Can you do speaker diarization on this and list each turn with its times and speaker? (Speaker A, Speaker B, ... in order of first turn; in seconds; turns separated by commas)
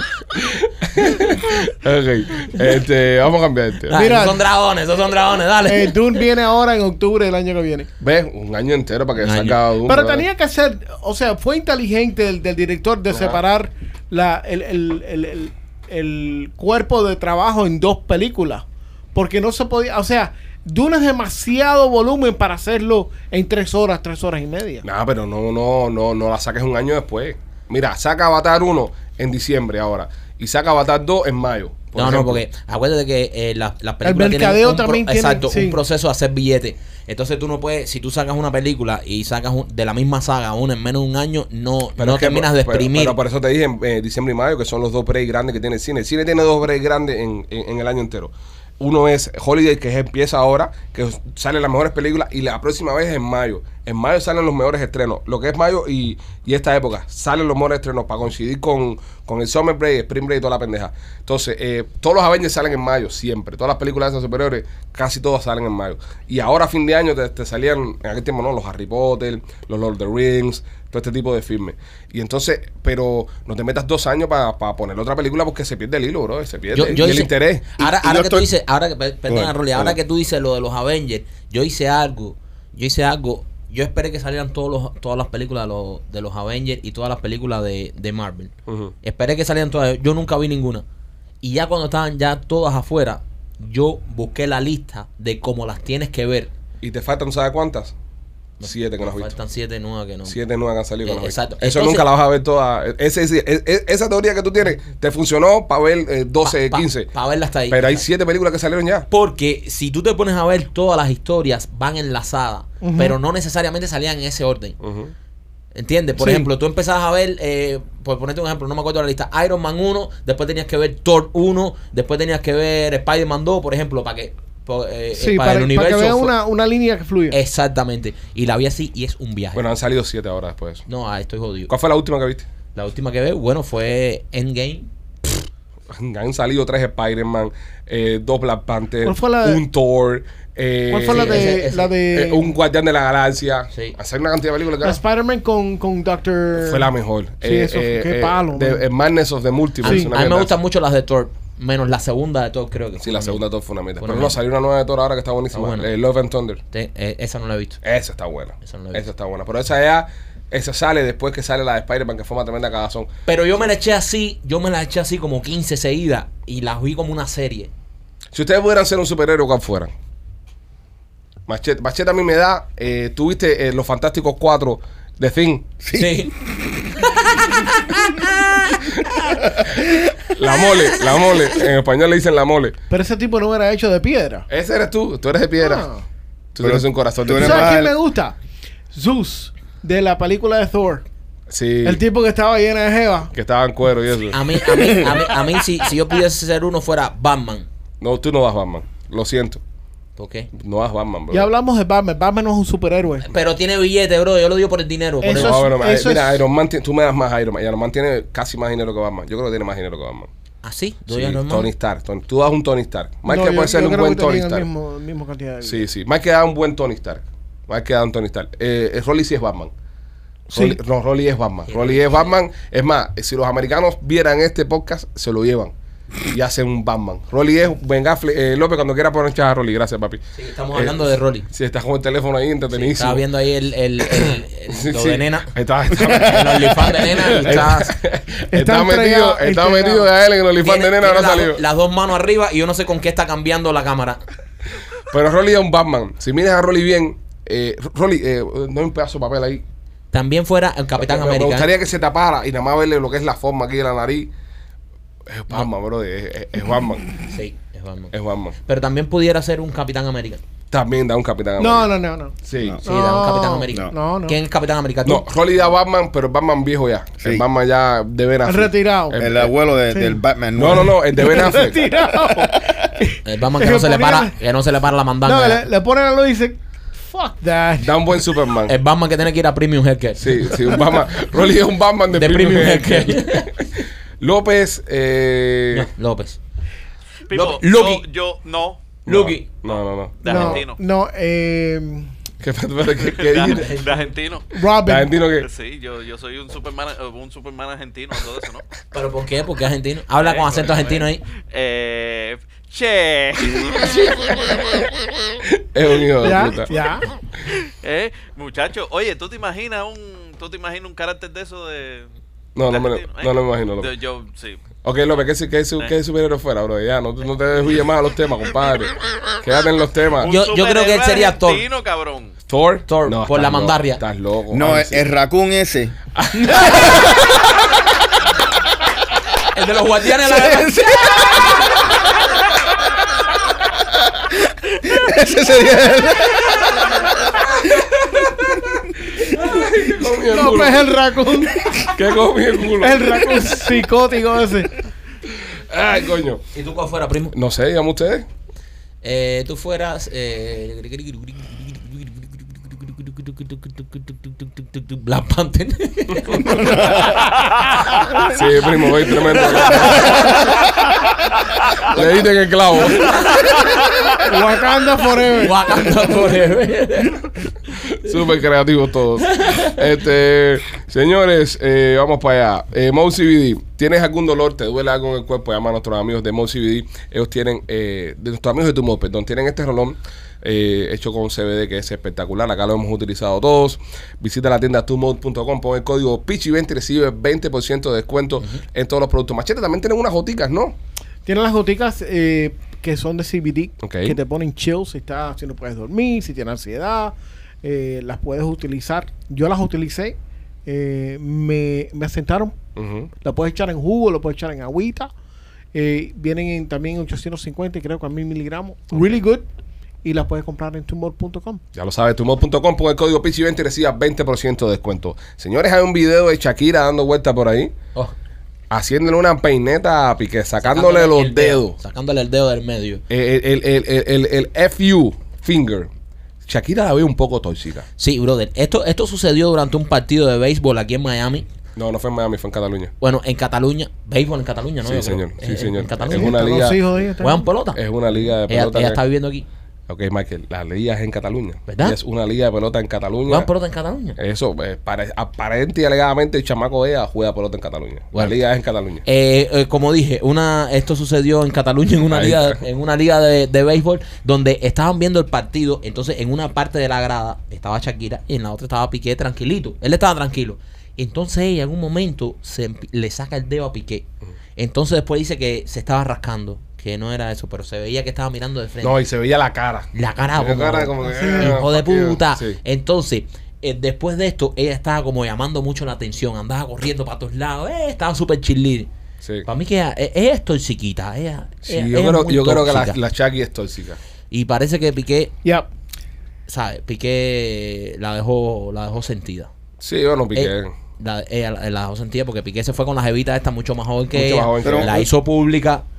Speaker A: 0.6-4.0, Speaker B: 3.9-6.0, Speaker C: 3.9-4.4, Speaker C: 5.7-7.9, Speaker A: 8.0-10.3, Speaker B: 9.2-9.6, Speaker C: 9.8-24.8, Speaker A: 13.1-13.4, Speaker A: 24.8-32.4, Speaker B: 31.9-43.2, Speaker C: 34.0-35.8, Speaker A: 42.0-77.7, Speaker B: 76.7-88.5, Speaker D: 77.8-78.5, Speaker D: 79.3-80.0, Speaker A: 88.7-88.9, Speaker B: 89.0-90.8, Speaker B: 91.4-96.5, Speaker A: 96.8-97.9, Speaker B: 98.6-100.4, Speaker A: 98.6-99.3, Speaker A: 100.2-107.1, Speaker B: 101.0-102.1, Speaker B: 106.4-108.0, Speaker A: 107.7-109.1, Speaker B: 109.1-114.8, Speaker C: 112.8-113.2, Speaker A: 114.8-115.1, Speaker B: 115.7-126.3, Speaker C: 116.2-116.5, Speaker C: 125.2-127.4, Speaker B: 127.3-129.6, Speaker A: 129.5-130.8, Speaker B: 130.9-131.7, Speaker A: 131.7-132.5, Speaker B: 132.7-134.9, Speaker A: 135.9-145.0, Speaker C: 139.0-139.6, Speaker C: 140.9-142.6, Speaker B: 141.0-141.9, Speaker C: 144.8-146.9, Speaker A: 146.5-150.6, Speaker C: 147.4-148.8, Speaker B: 149.8-153.4, Speaker C: 149.8-150.1, Speaker A: 153.0-156.6, Speaker B: 154.0-154.4, Speaker B: 155.5-155.9, Speaker B: 156.7-157.8, Speaker A: 157.8-163.1, Speaker B: 158.6-159.1, Speaker B: 163.3-167.7, Speaker A: 168.3-169.9, Speaker A: 171.5-175.7, Speaker D: 175.8-176.5, Speaker B: 175.9-176.3, Speaker A: 180.3-182.8, Speaker C: 182.9-184.5, Speaker A: 184.5-185.9, Speaker C: 185.6-186.0, Speaker A: 186.5-187.9, Speaker D: 186.6-187.9, Speaker C: 187.3-188.4, Speaker C: 188.9-191.0, Speaker A: 191.5-192.0, Speaker C: 191.8-193.3, Speaker A: 193.3-194.9, Speaker B: 194.3-197.7, Speaker A: 198.0-199.6, Speaker B: 200.2-200.5, Speaker A: 200.5-201.5, Speaker C: 201.3-203.3, Speaker B: 203.2-205.6, Speaker C: 205.2-206.4, Speaker A: 205.3-210.3, Speaker B: 210.6-211.7, Speaker A: 211.1-214.7, Speaker C: 213.3-215.8, Speaker A: 215.6-219.7, Speaker A: 220.5-225.7, Speaker B: 221.7-222.3, Speaker A: 226.3-233.2, Speaker B: 230.3-231.5, Speaker B: 232.7-237.9, Speaker A: 234.1-241.6, Speaker C: 238.5-240.1, Speaker B: 240.6-244.2, Speaker A: 245.1-249.6, Speaker B: 250.1-251.7, Speaker A: 251.0-254.3, Speaker A: 255.3-257.2, Speaker B: 257.3-258.1, Speaker A: 258.1-258.6, Speaker B: 258.6-260.4, Speaker A: 260.7-261.9, Speaker C: 261.6-264.4, Speaker A: 262.4-262.8, Speaker B: 262.8-265.2, Speaker A: 265.0-269.5, Speaker C: 268.4-269.2, Speaker D: 269.2-271.2, Speaker C: 269.9-270.2, Speaker A: 270.6-271.9, Speaker C: 270.8-274.3, Speaker D: 272.3-272.9, Speaker B: 273.2-275.6, Speaker C: 275.2-278.2, Speaker A: 277.8-278.7, Speaker B: 278.6-280.8, Speaker A: 280.2-283.7, Speaker B: 282.1-283.7, Speaker A: 284.2-285.9, Speaker B: 285.7-286.4, Speaker E: 287.3-288.9, Speaker B: 287.3-288.0, Speaker B: 289.1-289.5, Speaker A: 289.1-290.6, Speaker E: 289.6-290.8, Speaker C: 290.2-292.1, Speaker A: 292.4-293.8, Speaker E: 293.0-294.5, Speaker B: 293.4-294.0, Speaker C: 294.5-295.2, Speaker A: 294.8-295.5, Speaker E: 295.4-298.7, Speaker B: 298.9-301.2, Speaker E: 300.2-304.4, Speaker A: 303.8-304.2, Speaker A: 305.4-306.7, Speaker C: 306.2-307.1, Speaker E: 307.5-312.1, Speaker A: 312.5-313.9, Speaker E: 312.7-314.7, Speaker A: 314.8-320.3, Speaker E: 320.2-322.4, Speaker B: 320.2-321.6, Speaker A: 322.5-325.0, Speaker B: 322.9-324.0, Speaker D: 324.5-325.9, Speaker A: 326.1-327.1, Speaker B: 326.4-327.1, Speaker B: 329.5-331.3, Speaker D: 330.3-331.4, Speaker D: 334.1-337.8, Speaker A: 337.5-340.9, Speaker C: 340.3-341.9, Speaker A: 341.6-343.7, Speaker C: 342.7-344.8, Speaker A: 345.3-346.4, Speaker B: 346.5-347.3, Speaker A: 347.3-348.2, Speaker B: 349.0-358.2, Speaker A: 358.2-360.3, Speaker B: 359.7-360.4, Speaker A: 361.8-363.2, Speaker B: 362.8-363.6, Speaker C: 364.2-365.6, Speaker B: 365.3-367.3, Speaker A: 367.9-390.8, Speaker B: 369.2-369.8, Speaker C: 391.2-402.5, Speaker A: 393.8-394.2, Speaker A: 402.8-403.1, Speaker C: 403.2-405.1, Speaker C: 405.7-409.4, Speaker C: 410.0-411.6, Speaker A: 411.7-417.7, Speaker A: 418.7-421.8, Speaker B: 420.6-423.0, Speaker A: 423.1-425.9, Speaker A: 426.4-427.9, Speaker B: 428.0-431.4, Speaker A: 431.8-432.9, Speaker B: 433.0-436.5, Speaker A: 434.8-436.8, Speaker C: 436.1-437.5, Speaker B: 437.2-439.4, Speaker A: 437.7-439.0, Speaker A: 439.9-443.5, Speaker B: 441.7-442.0, Speaker B: 443.3-444.2, Speaker A: 444.2-449.0, Speaker B: 449.0-464.1, Speaker A: 452.1-452.6, Speaker B: 464.6-469.0, Speaker A: 468.8-472.6, Speaker B: 469.9-478.9, Speaker C: 471.0-471.6, Speaker B: 479.4-483.0, Speaker A: 481.6-484.0, Speaker B: 484.3-485.3, Speaker B: 486.5-489.5, Speaker A: 489.8-490.7, Speaker B: 490.3-495.8, Speaker A: 494.1-495.1, Speaker D: 494.6-494.9